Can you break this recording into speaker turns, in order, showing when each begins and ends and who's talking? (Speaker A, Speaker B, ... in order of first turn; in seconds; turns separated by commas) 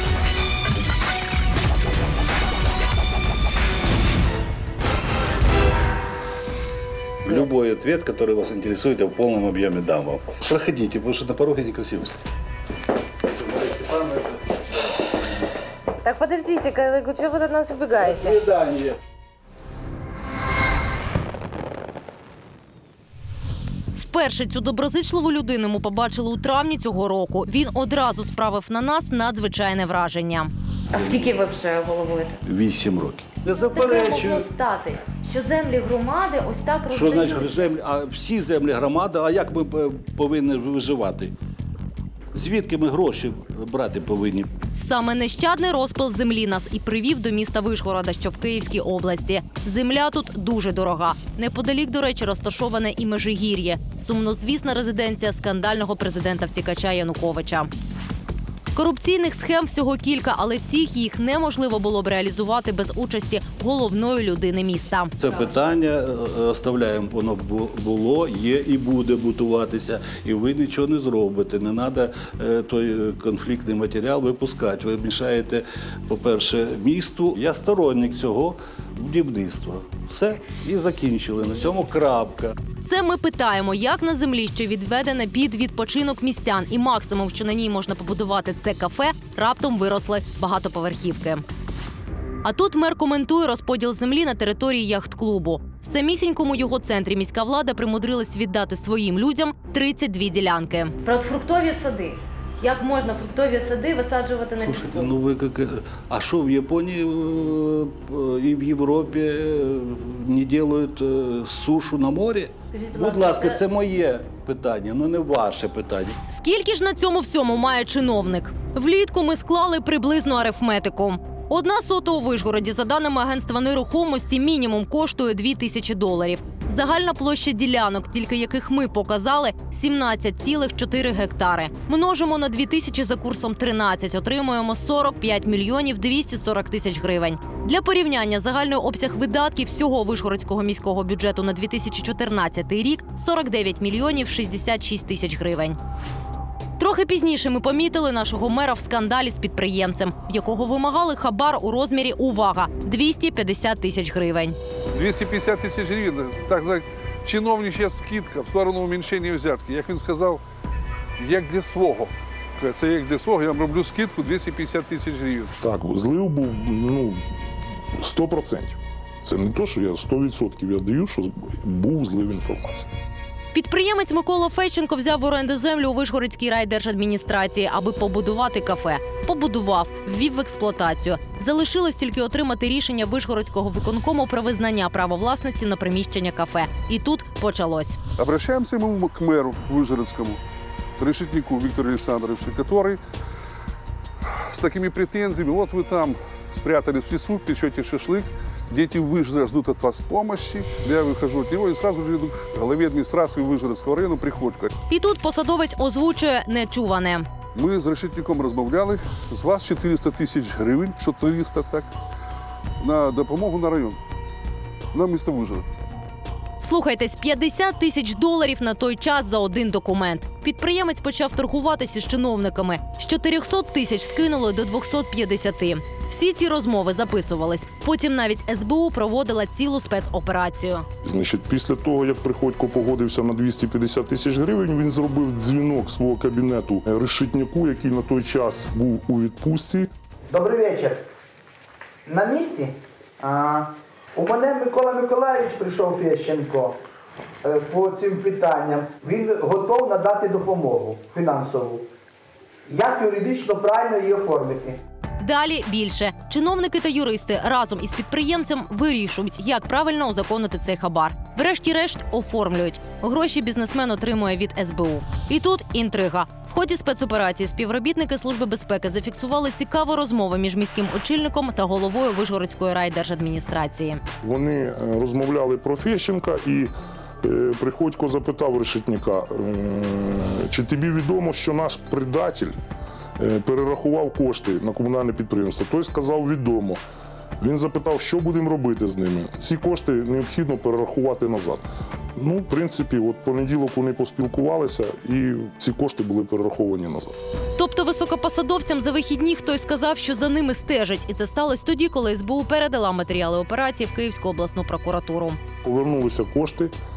Speaker A: 7.2-12.2, Speaker A: 13.3-15.4, Speaker B: 16.0-18.4, Speaker A: 17.9-19.0, Speaker C: 23.9-32.4, Speaker A: 30.9-31.3, Speaker A: 32.5-34.5, Speaker C: 33.5-37.7, Speaker A: 36.9-41.3, Speaker A: 42.3-44.5, Speaker C: 44.7-57.7, Speaker C: 58.7-65.1, Speaker A: 65.2-82.5, Speaker C: 82.8-91.4, Speaker C: 92.4-105.1, Speaker A: 104.6-116.1, Speaker C: 112.7-113.6, Speaker C: 116.3-145.8, Speaker C: 146.8-154.6, Speaker D: 154.9-160.4, Speaker D: 161.2-165.5, Speaker E: 165.6-167.2, Speaker E: 168.0-172.9, Speaker C: 173.5-188.0, Speaker D: 188.2-190.4, Speaker D: 191.0-193.0, Speaker D: 194.5-204.7, Speaker C: 204.9-207.2, Speaker D: 207.5-211.9, Speaker D: 212.8-214.0, Speaker D: 214.9-215.7, Speaker C: 216.6-230.8, Speaker E: 231.0-239.9, Speaker F: 240.3-241.0, Speaker F: 242.1-246.8, Speaker F: 247.4-251.8, Speaker F: 252.7-254.8, Speaker C: 255.2-274.0, Speaker E: 274.2-282.5, Speaker E: 283.2-286.8, Speaker E: 287.4-291.6, Speaker E: 292.1-297.1, Speaker C: 297.6-305.4, Speaker E: 305.6-306.7